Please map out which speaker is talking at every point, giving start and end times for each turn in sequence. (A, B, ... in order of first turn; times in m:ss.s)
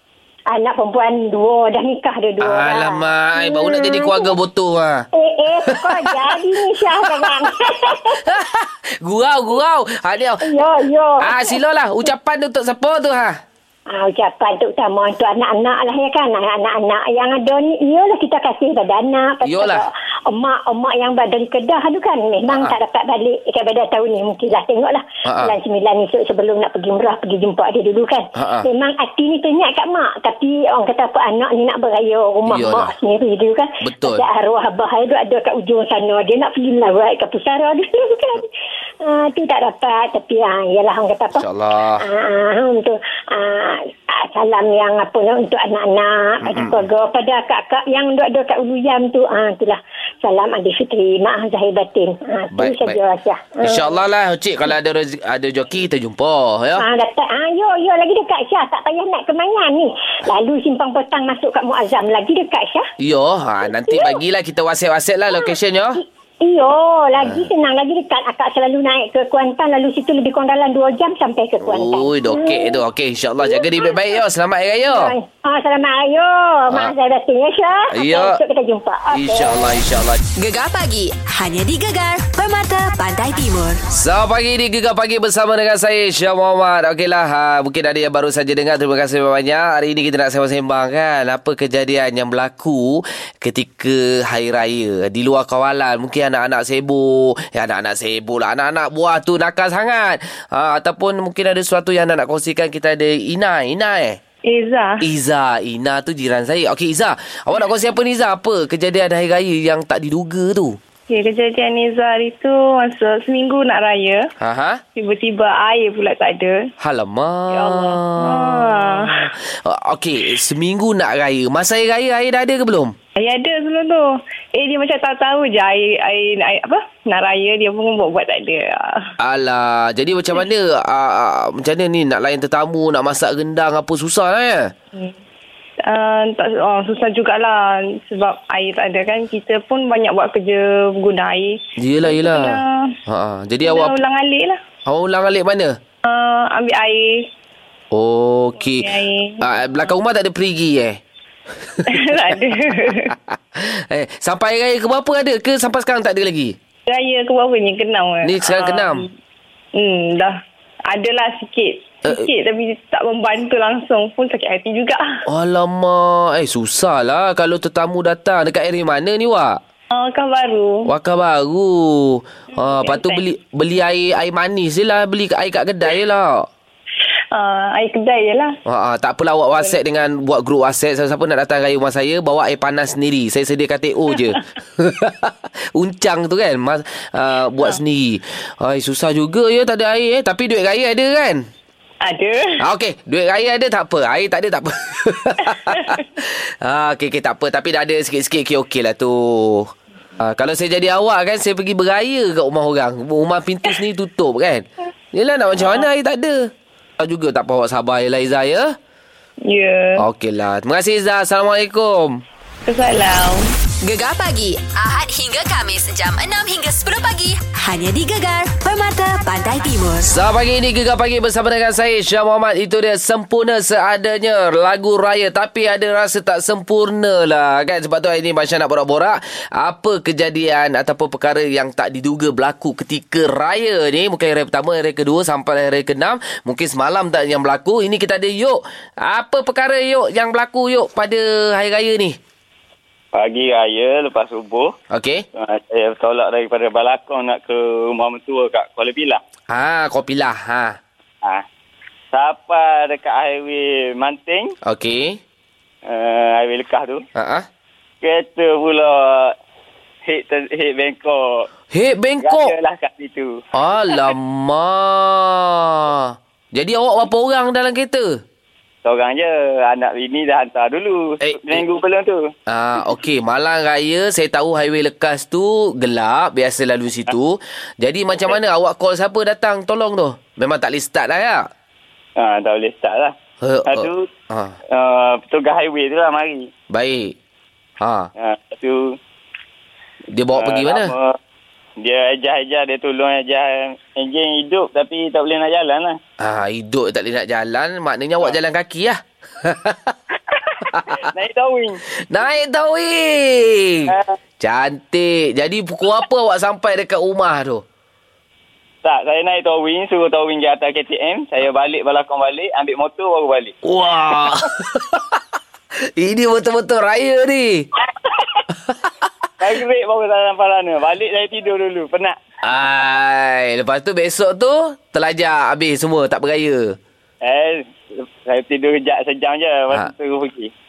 0:00.5-0:04.3 A
0:02.4-0:05.0 B
0:05.1-0:08.2 A
0:05.7-0:06.3 B
0:08.2-0:10.6 B
0:10.4-0:11.6 A
0:11.2-0:13.4 B
0:13.9-0:38.5 A
0:19.4-0:19.8 B
0:22.5-0:22.8 B
0:25.2-0:25.6 B
0:28.3-0:28.7 B
0:32.4-0:32.9 B
0:33.8-0:34.2 B
0:39.0-0:41.4 A
0:41.3-0:42.0 B
0:42.0-0:54.0 A
0:46.4-0:46.8 B
0:52.5-0:53.0 B
0:53.6-0:56.8 B
0:56.8-1:02.8 A
1:03.0-1:06.0 B
1:03.7-1:04.2 A
1:05.3-1:12.8 A
1:07.2-1:07.5 B
1:11.6-1:15.1 B
1:13.4-1:14.0 A
1:14.8-1:19.8 A
1:17.9-1:18.4 B
1:19.1-1:20.2 B
1:20.4-1:23.8 C
1:23.9-1:44.2 B
1:44.5-1:45.0 D
1:45.0-1:50.8 B
1:51.1-1:54.3 D
1:54.4-1:54.8 B
1:54.9-1:56.7 D
1:56.8-2:02.9 B
1:57.5-1:59.3 D
2:03.2-2:09.1 D
2:09.2-2:14.7 B
2:15.8-2:22.9 D
2:21.8-2:23.9 B
2:23.6-2:24.6 D
2:24.8-2:25.8 B
2:26.0-2:27.2 D
2:27.9-2:28.9 B
2:28.6-2:29.5 D
2:29.4-2:31.0 B
2:31.9-2:33.1 D
2:33.0-2:36.6 B
2:36.9-2:39.1 D
2:38.2-2:39.0 B
2:39.7-2:40.3 D
2:40.9-2:45.0 D
2:45.3-2:49.6 B
2:49.9-2:50.9 D
2:50.9-2:56.4 B
2:52.5-2:53.2 D
2:57.3-2:58.6 D
2:58.6-3:11.4 B
3:12.0-3:12.6 D
3:12.6-3:28.7 B
3:29.5-3:30.0 D
3:30.0-3:32.2 B
3:32.6-3:33.5 D
3:33.8-3:40.1 C
3:40.0-4:02.2 B
4:03.1-4:04.7 E
4:04.9-4:05.2 B
4:05.4-4:09.2 E
4:09.5-4:10.8 B
4:12.1-4:14.5 E
4:14.6-4:15.2 B
4:15.8-4:17.0 E
4:17.2-4:17.5 B
4:18.0-4:19.4 E
4:20.0-4:21.5 E
4:21.7-4:22.5 B
4:22.2-4:23.4 E
4:23.5-4:28.2 B
4:28.8-4:32.3 E
4:31.2-4:31.6 B
4:32.5-4:41.4 B
4:42.2-4:43.1 E
4:43.4-4:44.5 B
4:43.6-4:44.1 E
4:44.7-4:46.5 E
4:46.7-4:47.1 B
4:47.8-4:48.1 B
4:48.2-4:48.9 E
4:50.1-4:50.9 B
4:50.3-4:51.2 E
4:51.8-4:56.0 E
4:56.2-4:59.9 B
5:00.3-5:01.8 E
5:00.7-5:01.1 B
5:02.0-5:07.6 B
5:03.9-5:04.2 E
5:08.8-5:13.5 E
5:13.6-5:15.2 B
5:15.9-5:17.7 B
5:18.5-5:19.1 B
5:19.4-5:22.2 E
5:22.4-5:26.8 B
5:27.2-5:30.5 E